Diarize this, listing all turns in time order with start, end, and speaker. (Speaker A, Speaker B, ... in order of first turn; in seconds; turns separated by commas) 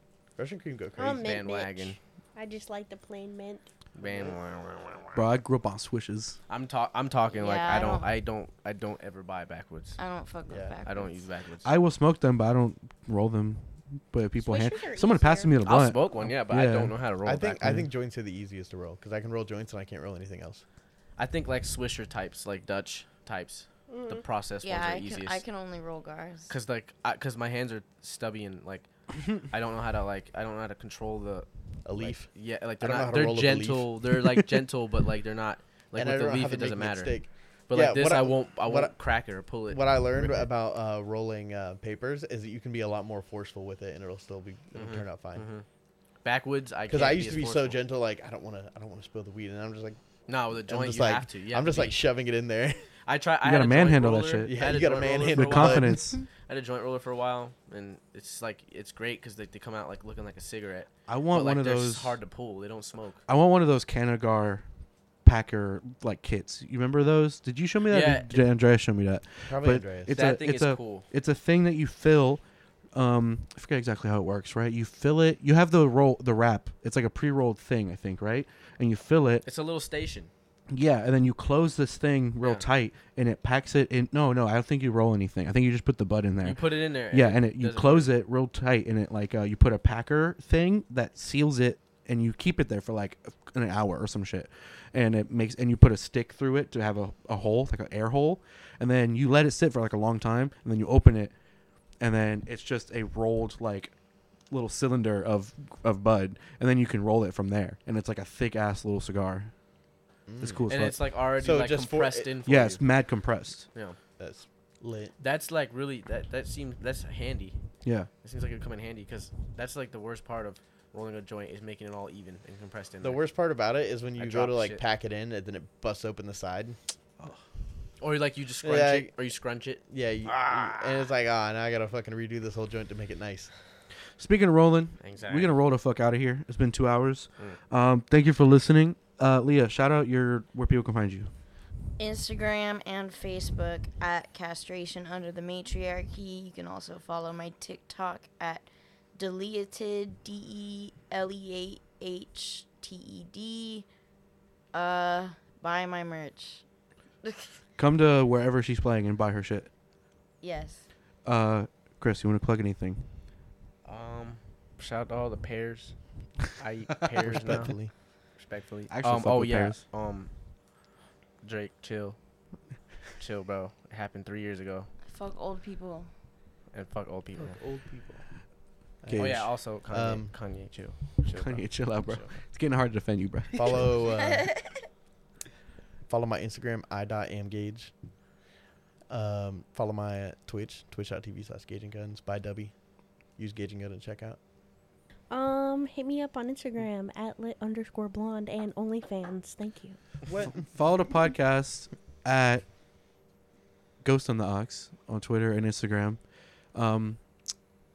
Speaker A: 0.4-1.2, Speaker B: 1.0-3.7, Speaker C: 1.2-2.0, Speaker C: 4.0-5.2, Speaker A: 4.0-4.3, Speaker D: 5.1-6.4, Speaker C: 6.5-10.0, Speaker E: 7.3-8.1, Speaker E: 10.0-11.3, Speaker A: 10.5-10.8, Speaker C: 10.8-11.7, Speaker D: 11.6-16.9, Speaker B: 14.4-15.7, Speaker C: 15.6-17.7, Speaker A: 17.2-20.6, Speaker D: 17.6-17.9, Speaker C: 21.2-25.4, Speaker B: 23.9-24.2, Speaker E: 24.6-26.5, Speaker C: 26.5-37.1, Speaker A: 31.8-32.3, Speaker A: 32.8-33.9, Speaker D: 34.2-34.4, Speaker A: 35.9-38.9, Speaker C: 37.7-40.5, Speaker A: 39.7-45.5, Speaker C: 44.7-45.6, Speaker C: 46.2-47.8, Speaker A: 46.9-50.0, Speaker C: 50.3-52.0, Speaker A: 50.7-52.9, Speaker C: 53.0-63.2, Speaker D: 53.4-54.6, Speaker A: 54.5-56.0, Speaker D: 55.3-56.2, Speaker D: 61.1-62.2, Speaker D: 63.3-64.6, Speaker D: 65.2-72.4, Speaker C: 67.9-68.3, Speaker A: 69.5-70.2, Speaker C: 70.1-71.0, Speaker D: 72.9-79.5, Speaker C: 79.5-80.3, Speaker D: 80.7-101.3, Speaker C: 82.4-82.7, Speaker C: 86.4-88.1, Speaker D: 102.0-103.9, Speaker D: 104.5-109.5, Speaker A: 110.3-110.6, Speaker D: 110.4-111.0, Speaker C: 110.7-112.8, Speaker A: 111.4-112.3, Speaker D: 112.5-113.7, Speaker A: 114.2-115.1, Speaker C: 115.2-117.5, Speaker C: 118.2-123.2, Speaker A: 123.0-126.8, Speaker C: 124.2-124.8, Speaker C: 128.0-131.1, Speaker A: 128.6-129.1, Speaker A: 129.9-133.5, Speaker D: 134.2-141.3, Speaker C: 135.0-135.5, Speaker E: 142.0-153.8, Speaker E: 154.7-156.6, Speaker E: 157.2-157.6, Speaker D: 157.8-159.7, Speaker E: 160.4-160.8, Speaker D: 161.2-163.1, Speaker C: 163.8-165.9, Speaker C: 166.5-167.8, Speaker A: 167.2-167.9, Speaker D: 167.4-167.7, Speaker C: 168.4-170.3, Speaker D: 168.9-169.8, Speaker C: 171.4-172.2, Speaker C: 173.2-174.9, Speaker E: 175.1-176.1, Speaker C: 176.7-177.6, Speaker A: 177.4-178.2, Speaker A: 179.0-180.3, Speaker D: 179.1-179.4, Speaker C: 179.1-182.4, Speaker D: 181.2-183.8, Speaker A: 183.5-184.5, Speaker E: 184.3-184.6, Speaker A: 186.1-187.9, Speaker A: 189.1-192.8, Speaker A: 193.3-194.4, Speaker B: 195.3-200.0, Speaker A: 200.3-200.6, Speaker D: 200.4-202.6, Speaker D: 204.0-206.2, Speaker D: 206.7-207.2